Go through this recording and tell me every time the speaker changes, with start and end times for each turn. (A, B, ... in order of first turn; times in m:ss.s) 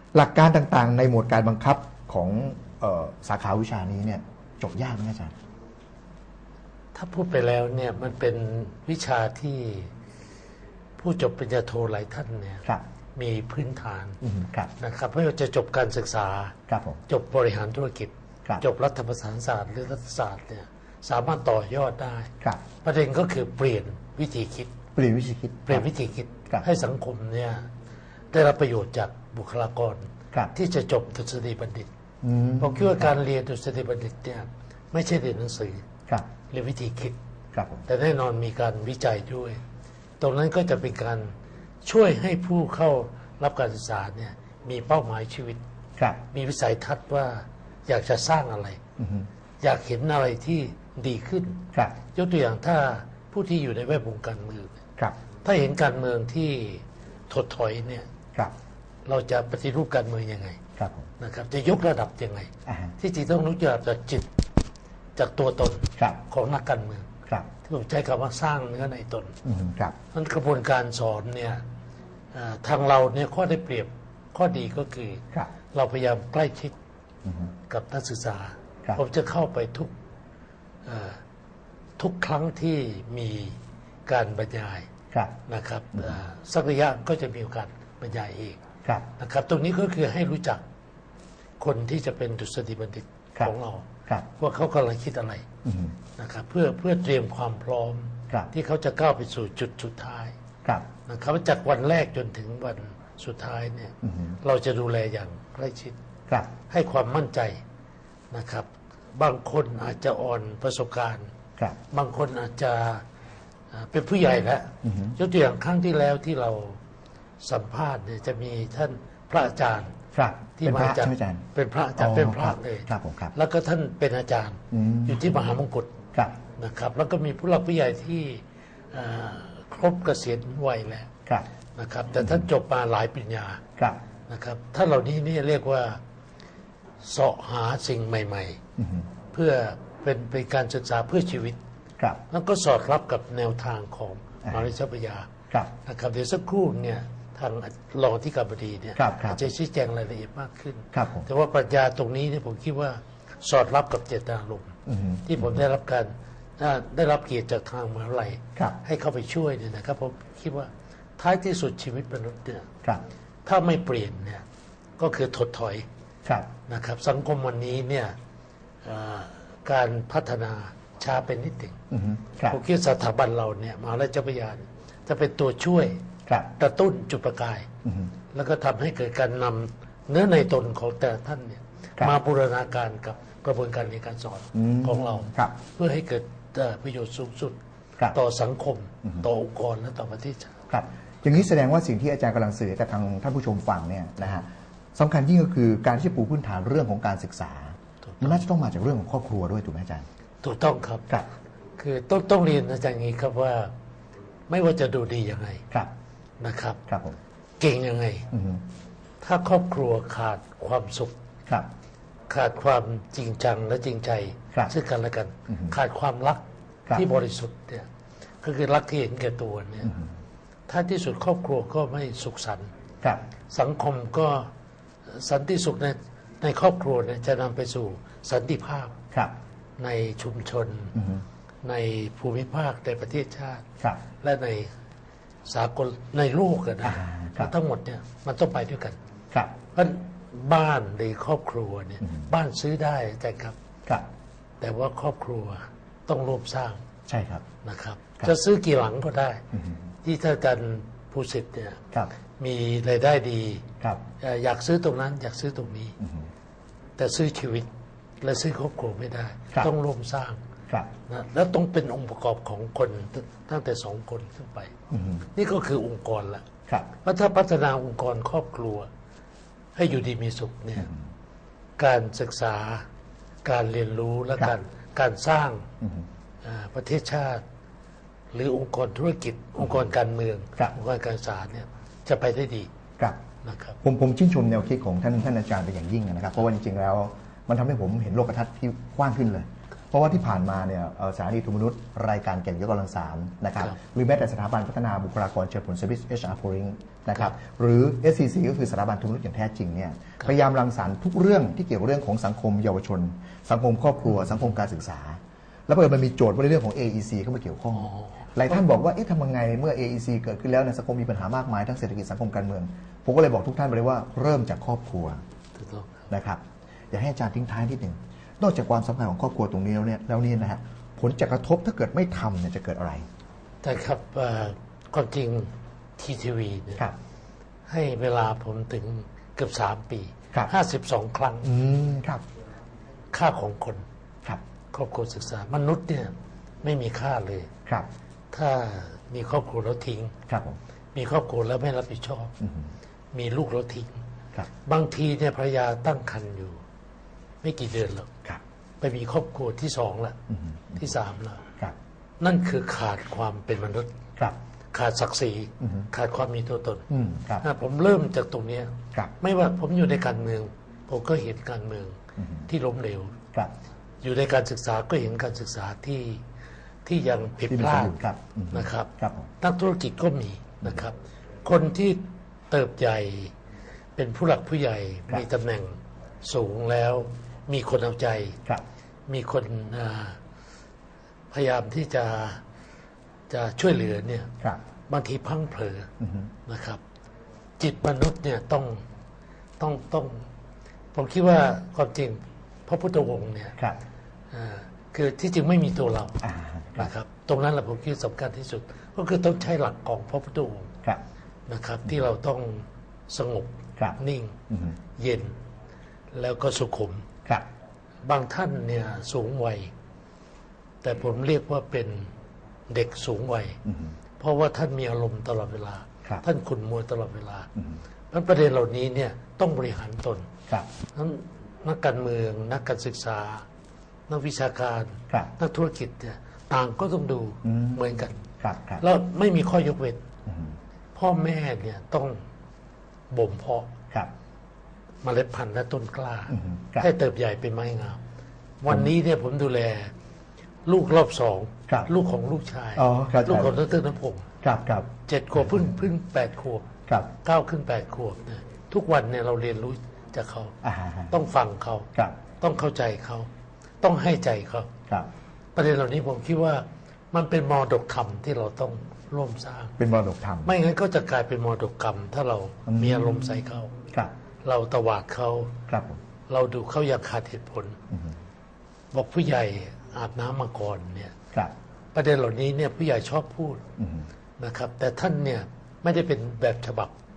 0:00.1-0:05.3 A
0:06.9-0:09.9 B
0:11.0-0:14.2 B
0:14.2-0:14.7 A
0:14.8-0:16.6 B
0:16.7-0:17.0 A
0:17.1-0:24.7 B
0:25.0-0:25.9 A
0:25.6-0:27.7 B
0:28.3-0:31.9 B
0:32.2-0:33.1 A
0:32.6-0:35.9 B
0:36.5-0:37.2 B
0:37.5-0:37.8 A
0:37.9-0:39.6 B
0:40.2-0:45.6 B
0:46.3-0:48.8 B
0:49.0-0:49.3 A
0:49.6-0:54.8 B
0:55.4-0:58.1 B
0:59.1-1:00.6 B
1:00.8-1:01.1 A
1:01.2-1:04.3 B
1:02.7-1:02.9 A
1:05.2-1:09.4 B
1:09.4-1:10.0 A
1:10.1-1:11.6 B
1:12.3-1:16.8 B
1:17.7-1:19.9 B
1:20.8-1:21.2 B
1:22.0-1:24.9 B
1:25.5-1:28.6 B
1:29.1-1:30.6 B
1:31.6-1:35.5 B
1:35.6-1:36.0 A
1:36.2-1:40.4 B
1:41.1-1:46.0 B
1:44.0-1:44.4 A
1:46.6-1:47.6 B
1:48.3-1:51.3 B
1:51.9-1:53.0 B
1:53.7-1:56.8 B
1:54.8-1:55.2 A
1:57.4-2:00.0 B
2:00.1-2:01.4 A
2:00.6-2:11.1 B
2:02.0-2:03.3 A
2:04.7-2:05.2 A
2:11.8-2:13.6 B
2:14.3-2:16.0 B
2:17.0-2:18.6 B
2:18.8-2:19.1 A
2:19.3-2:21.6 B
2:22.3-2:42.7 B
2:29.0-2:29.4 A
2:30.9-2:31.3 A
2:34.9-2:35.6 A
2:43.5-2:44.4 B
2:45.0-2:45.9 B
2:46.7-2:48.2 B
2:48.8-2:51.8 B
2:51.9-2:52.6 A
2:52.5-2:57.7 B
2:57.8-2:58.1 A
2:58.3-3:07.6 B
3:04.6-3:05.5 A
3:08.1-3:10.5 B
3:10.7-3:20.1 A
3:18.1-3:18.4 B
3:20.4-3:21.1 B
3:21.8-3:23.7 B
3:24.5-3:25.7 B
3:26.4-3:26.8 B
3:26.9-3:27.2 A
3:27.6-3:28.3 B
3:28.3-3:28.6 A
3:29.2-3:31.2 B
3:32.3-3:37.9 B
3:38.4-3:40.0 B
3:40.7-3:42.7 B
3:43.5-3:44.5 B
3:45.1-3:49.0 B
3:49.8-3:51.0 B
3:51.0-3:51.2 A
3:51.6-3:54.7 B
3:55.5-3:59.0 B
3:56.8-3:57.5 A
3:59.7-4:03.6 B
4:04.6-4:06.8 B
4:07.1-4:07.4 A
4:07.6-4:09.4 B
4:09.5-4:09.8 A
4:10.0-4:11.9 B
4:12.4-4:13.7 B
4:14.2-4:16.0 B
4:16.0-4:16.3 A
4:17.0-4:17.7 B
4:18.2-4:20.4 B
4:21.1-4:24.7 B
4:24.9-4:25.3 A
4:25.3-4:28.9 B
4:29.8-4:30.9 B
4:31.8-4:32.9 B
4:33.4-4:35.7 B
4:35.8-4:36.1 A
4:36.4-4:37.4 B
4:38.3-4:42.7 B
4:43.4-4:43.8 B
4:43.8-5:15.2 A
5:07.8-5:08.1 B
5:15.6-5:16.1 B
5:16.1-5:23.0 A
5:23.6-5:26.8 B
5:27.7-5:31.5 B
5:31.4-5:32.2 A
5:33.1-5:33.8 B
5:34.7-5:37.5 B
5:38.3-5:40.2 B
5:40.3-5:40.6 A
5:40.9-5:42.4 B
5:42.4-5:42.7 A
5:43.1-5:44.0 B
5:44.6-5:46.6 B
5:47.4-5:48.1 B
5:48.8-5:50.2 B
5:50.3-5:50.8 A
5:50.7-5:51.5 B
5:52.2-5:53.9 B
5:54.7-5:56.9 B
5:55.6-5:55.9 A
5:56.9-5:57.4 A
5:57.4-6:03.2 B
6:02.2-6:02.5 A
6:04.0-6:06.2 B
6:06.9-6:08.0 B
6:07.5-6:09.3 A
6:08.5-6:13.3 B
6:14.0-6:18.4 B
6:19.1-6:20.2 B
6:21.3-6:22.4 B
6:23.3-6:24.3 B
6:24.9-6:25.9 B
6:26.0-6:26.3 A
6:26.5-6:26.8 B
6:27.6-6:28.8 B
6:29.6-6:30.3 B
6:30.9-6:33.6 B
6:34.3-6:36.2 B
6:36.2-6:36.9 A
6:36.8-6:40.7 B
6:41.5-6:44.4 B
6:45.0-6:45.3 B
6:46.1-6:47.1 B
6:48.0-6:49.7 B
6:50.8-6:52.1 B
6:52.7-6:53.6 B
6:53.7-6:54.0 A
6:54.2-6:57.5 B
6:58.1-7:00.3 B
7:00.9-7:03.4 B
7:04.1-7:08.2 B
7:07.4-7:07.8 A
7:08.4-7:08.8 A
7:08.8-7:10.0 B
7:10.3-7:10.5 A
7:11.0-7:12.2 B
7:13.1-7:13.7 B
7:15.0-7:18.0 B
7:16.3-7:16.8 A
7:18.6-7:19.9 B
7:20.7-7:24.3 B
7:22.8-7:23.6 A
7:24.4-7:25.7 A
7:25.1-7:30.6 B
7:30.6-7:31.1 A
7:31.1-7:33.3 B
7:33.8-7:34.7 B
7:35.6-7:39.8 B
7:39.8-7:40.5 A
7:40.5-7:43.8 B
7:42.7-7:44.1 A
7:44.4-7:45.6 B
7:45.7-7:46.0 A
7:46.3-7:47.8 B
7:47.9-7:48.2 A
7:48.9-7:51.2 B
7:51.9-7:53.6 B
7:53.8-7:54.1 A
7:54.4-7:56.9 B